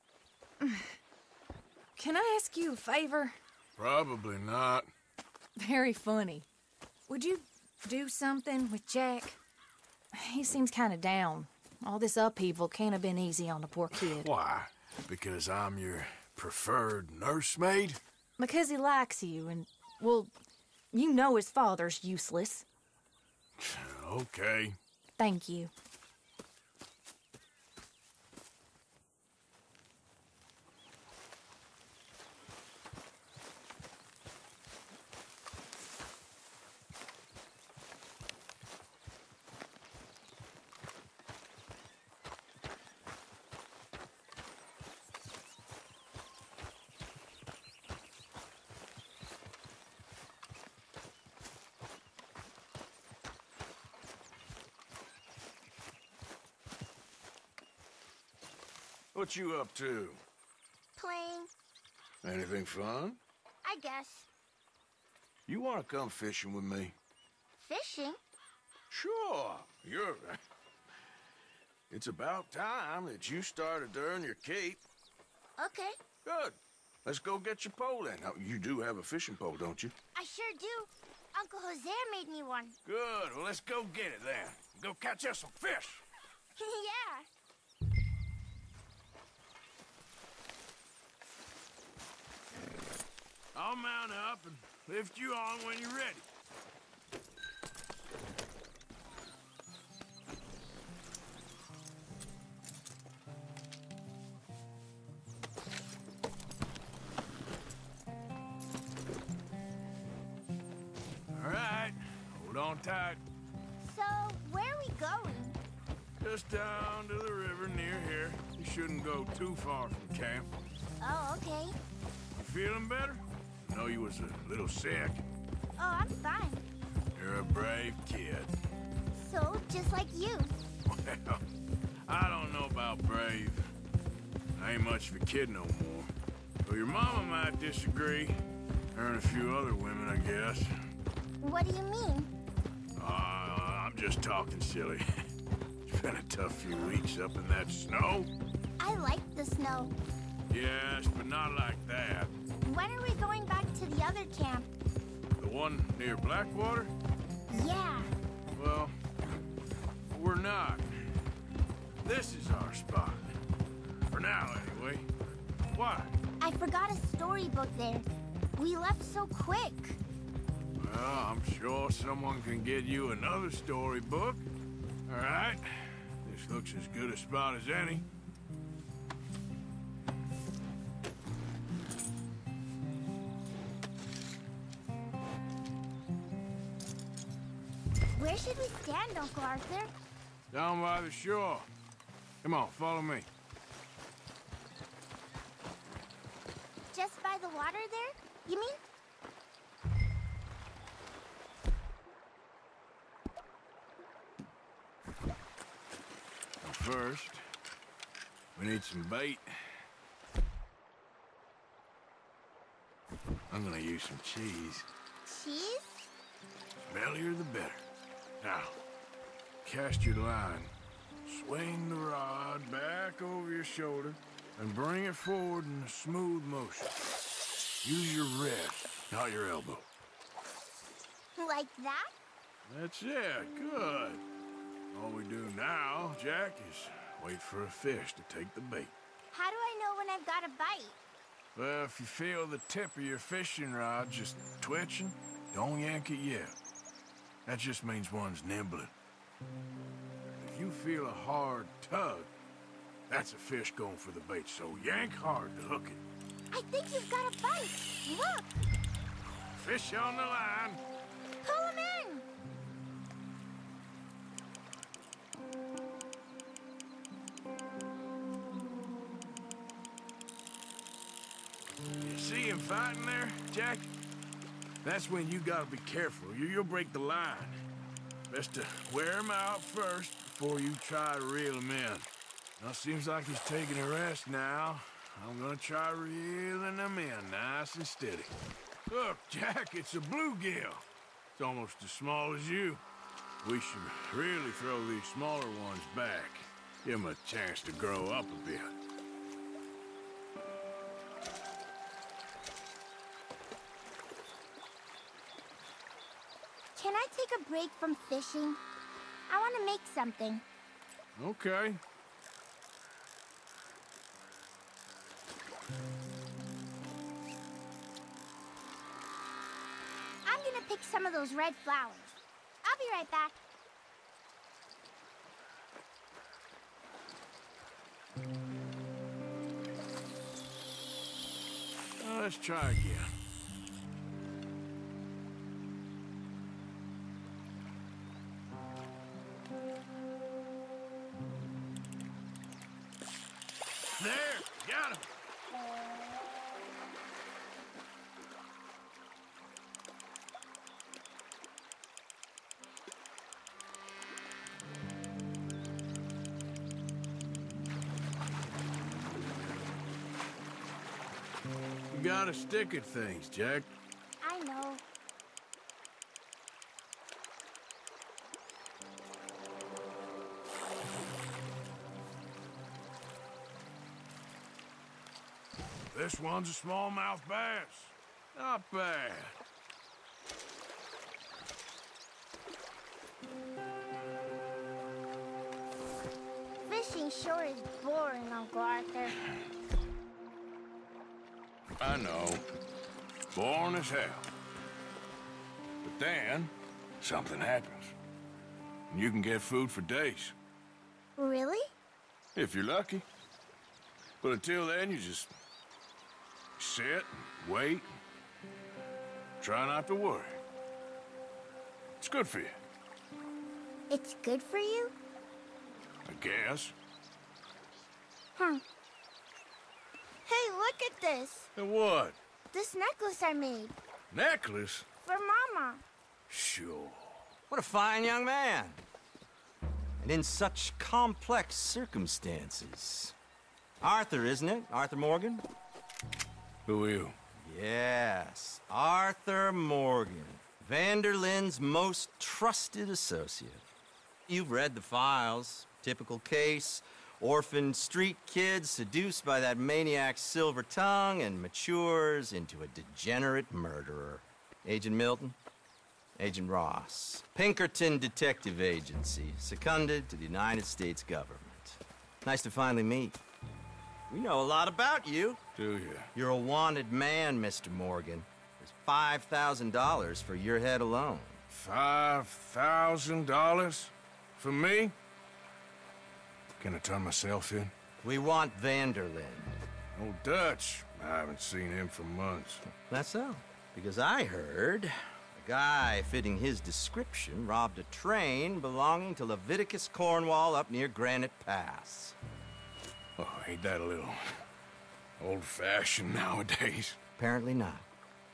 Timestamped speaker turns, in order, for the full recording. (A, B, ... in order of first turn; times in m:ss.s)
0:00.6-0:01.0 A
0:02.0-0:03.3 A
0:03.8-0:04.9 B
0:05.6-0:06.5 A
0:07.1-0:09.4 A
0:10.2-0:14.3 A
0:14.0-0:18.0 B
0:18.4-0:20.3 A
0:20.9-0:22.6 A
0:23.6-0:24.8 B
0:25.2-0:25.7 A
0:59.1-1:00.2 B
1:01.0-1:01.5 C
1:02.2-1:03.2 B
1:03.6-1:04.3 C
1:05.5-1:07.0 B
1:07.6-1:08.2 C
1:08.9-1:10.4 B
1:11.9-1:14.8 B
1:15.6-1:16.0 C
1:16.2-1:19.9 B
1:20.1-1:22.8 C
1:22.8-1:26.0 B
1:26.6-1:27.2 C
1:33.5-1:36.2 B
1:51.3-1:53.2 B
1:53.8-1:55.6 C
1:56.2-2:00.5 B
2:01.0-2:01.7 C
2:02.3-2:05.2 B
2:05.8-2:06.7 C
2:07.1-2:08.5 B
2:09.1-2:10.5 C
2:10.8-2:11.4 B
2:12.0-2:13.7 B
2:14.5-2:16.1 B
2:16.6-2:18.4 B
2:18.9-2:20.8 B
2:21.4-2:22.3 C
2:23.0-2:25.0 B
2:25.8-2:28.3 B
2:28.8-2:29.9 C
2:30.5-2:32.3 B
2:32.6-2:34.7 C
2:35.4-2:36.9 B
2:37.5-2:38.1 C
2:38.6-2:38.9 B
2:40.1-2:40.9 B
2:42.0-2:43.4 B
2:44.1-2:45.1 B
2:45.7-2:46.2 B
2:46.4-2:50.0 C
2:50.8-2:54.4 B
2:55.0-2:58.0 B
3:08.1-3:09.9 C
3:10.5-3:11.7 B
3:12.4-3:13.3 B
3:16.9-3:18.8 C
3:26.6-3:27.4 B
3:28.5-3:29.8 B
3:33.5-3:34.9 B
3:35.2-3:36.1 C
3:36.8-3:37.8 B
3:38.4-3:38.8 B
3:39.6-3:47.0 B
3:47.8-3:49.9 B
3:51.3-3:52.1 C
3:52.6-3:54.2 B
3:54.9-3:58.9 B
3:59.3-4:01.0 C
4:01.5-4:06.5 B
4:07.4-4:08.9 B
4:10.3-4:12.3 B
4:13.1-4:16.0 B
4:16.5-4:18.6 C
4:19.5-4:20.8 B
4:21.4-4:22.2 C
4:32.0-4:33.9 B
4:34.8-4:37.6 B
4:38.3-4:48.3 B
4:48.9-4:52.8 B
4:53.4-4:58.7 B
5:06.8-5:08.6 C
5:09.3-5:10.4 C
5:11.2-5:11.8 B
5:20.2-5:23.4 C
5:32.0-5:33.1 B
5:44.0-5:45.1 B
6:01.9-6:03.7 B
6:04.2-6:04.8 C
6:15.9-6:19.3 B
6:26.6-6:29.2 C
6:31.8-6:32.4 B
6:33.3-6:34.3 B
6:35.8-6:37.9 B
6:38.9-6:40.3 B
6:41.2-6:41.7 C
6:42.3-6:43.0 B
6:44.2-6:45.3 B
6:46.6-6:47.9 B
6:49.4-6:50.4 B
6:52.0-6:52.6 B
6:53.9-6:54.9 C
6:56.0-6:56.7 B
6:58.4-6:58.6 C
7:00.2-7:01.5 C
7:01.6-7:02.2 B
7:02.5-7:03.7 C
7:04.1-7:04.8 B
7:05.0-7:05.8 C
7:06.3-7:07.2 B
7:07.5-7:08.8 D
7:10.0-7:13.1 D
7:13.8-7:15.4 D
7:16.6-7:17.1 B
7:17.4-7:23.6 D
7:24.3-7:35.4 D
7:36.2-7:43.2 D
7:44.1-7:45.4 D
7:45.5-7:46.1 B
7:46.1-7:51.4 D
7:51.5-7:54.9 B
7:56.6-7:57.7 B
7:58.0-7:59.5 D
7:59.9-8:02.6 B
8:02.8-8:12.1 D
8:13.2-8:14.4 B
8:15.2-8:17.0 B
8:17.2-8:17.8 D